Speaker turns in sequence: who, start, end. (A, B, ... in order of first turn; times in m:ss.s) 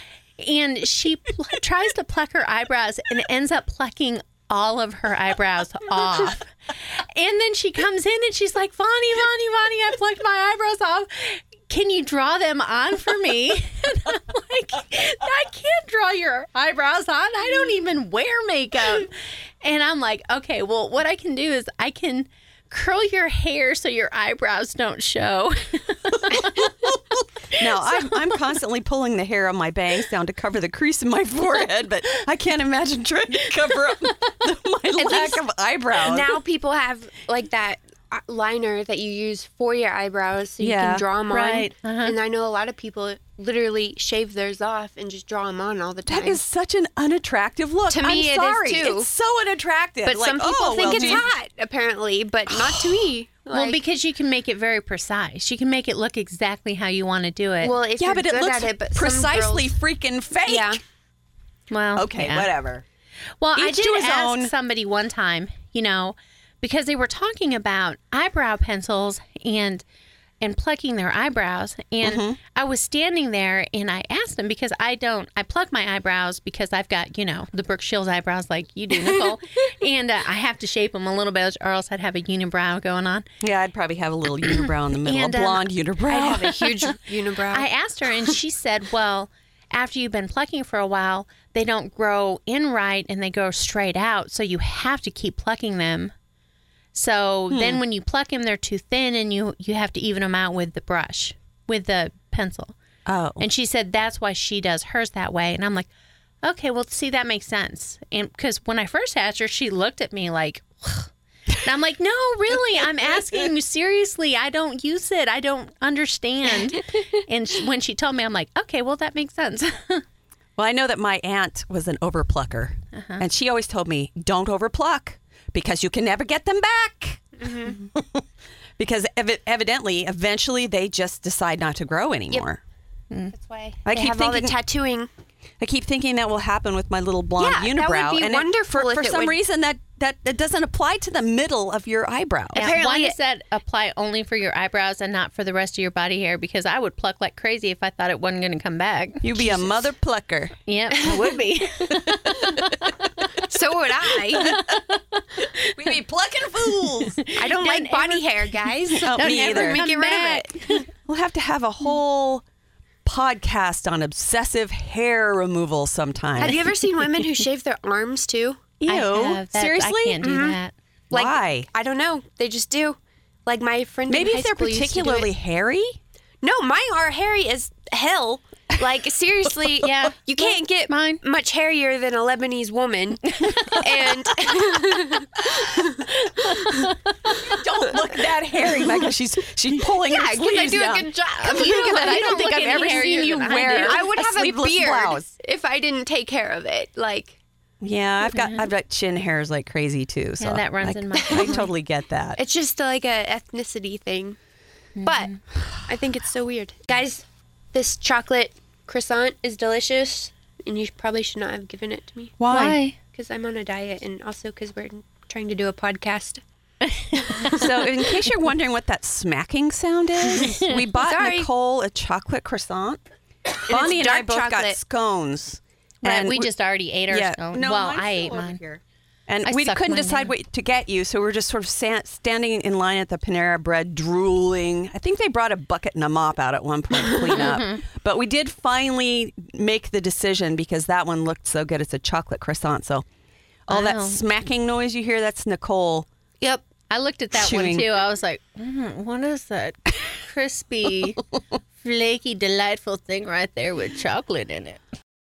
0:00.4-0:19.1 A
0:19.6-0:26.7 A
0:27.6-0:36.4 B
0:35.0-0:35.4 C
0:36.0-0:46.4 C
0:40.6-0:41.0 B
0:41.3-0:42.1 A
0:46.1-0:51.3 B
0:47.9-0:49.1 C
0:50.0-0:53.8 C
0:50.8-0:51.3 A
0:52.5-0:53.1 B
0:53.5-0:57.7 A
0:57.6-0:59.7 C
0:58.0-1:00.8 B
1:00.5-1:00.8 C
1:01.7-1:02.5 A
1:02.0-1:02.8 B
1:03.4-1:09.8 A
1:03.5-1:04.5 B
1:10.4-1:23.3 A
1:12.0-1:12.4 B
1:23.4-1:26.5 B
1:25.0-1:26.9 A
1:26.2-1:27.6 C
1:27.5-1:36.1 A
1:36.9-1:42.8 A
1:37.5-1:37.8 B
1:43.0-1:43.4 B
1:43.4-1:45.9 A
1:46.4-1:51.1 A
1:51.6-2:00.0 A
2:00.6-2:08.2 B
2:02.9-2:03.2 A
2:07.4-2:07.8 C
2:08.8-2:12.6 B
2:13.3-2:15.1 C
2:13.8-2:14.5 B
2:15.6-2:22.7 B
2:17.4-2:19.4 C
2:22.5-2:29.9 A
2:22.5-2:23.1 C
2:29.2-2:30.6 B
2:30.6-2:33.0 A
2:32.0-2:32.6 B
2:33.4-2:34.6 C
2:34.3-2:34.8 B
2:34.4-2:35.7 A
2:35.6-2:37.2 B
2:36.8-2:40.9 A
2:37.4-2:40.8 C
2:39.0-2:39.8 B
2:41.0-2:42.4 B
2:43.0-2:46.6 B
2:46.4-2:48.7 C
2:46.4-2:46.7 A
2:48.8-2:50.2 B
2:48.8-2:50.7 A
2:50.2-2:50.6 C
2:51.1-2:51.7 B
2:51.1-2:55.3 C
2:54.1-2:56.0 B
2:56.4-3:06.0 C
2:59.8-3:01.2 A
3:03.4-3:03.8 A
3:06.2-3:07.4 A
3:07.4-3:15.3 B
3:10.0-3:17.4 C
3:11.4-3:14.1 A
3:17.8-3:22.4 B
3:18.3-3:18.7 A
3:20.4-3:21.7 A
3:21.2-3:21.6 C
3:22.4-3:24.4 C
3:25.0-3:25.4 A
3:25.0-3:32.4 C
3:32.4-3:32.8 B
3:32.5-3:33.0 A
3:33.1-3:36.4 C
3:36.9-3:37.7 A
3:37.5-3:43.0 B
3:41.0-3:41.5 C
3:43.6-3:44.8 C
3:43.6-3:46.5 B
3:46.0-3:48.6 A
3:47.1-4:03.0 B
3:49.4-3:50.3 A
3:57.3-3:57.8 A
4:03.7-4:06.1 B
4:03.7-4:04.2 A
4:06.4-4:11.2 A
4:07.3-4:07.9 B
4:11.8-4:14.8 A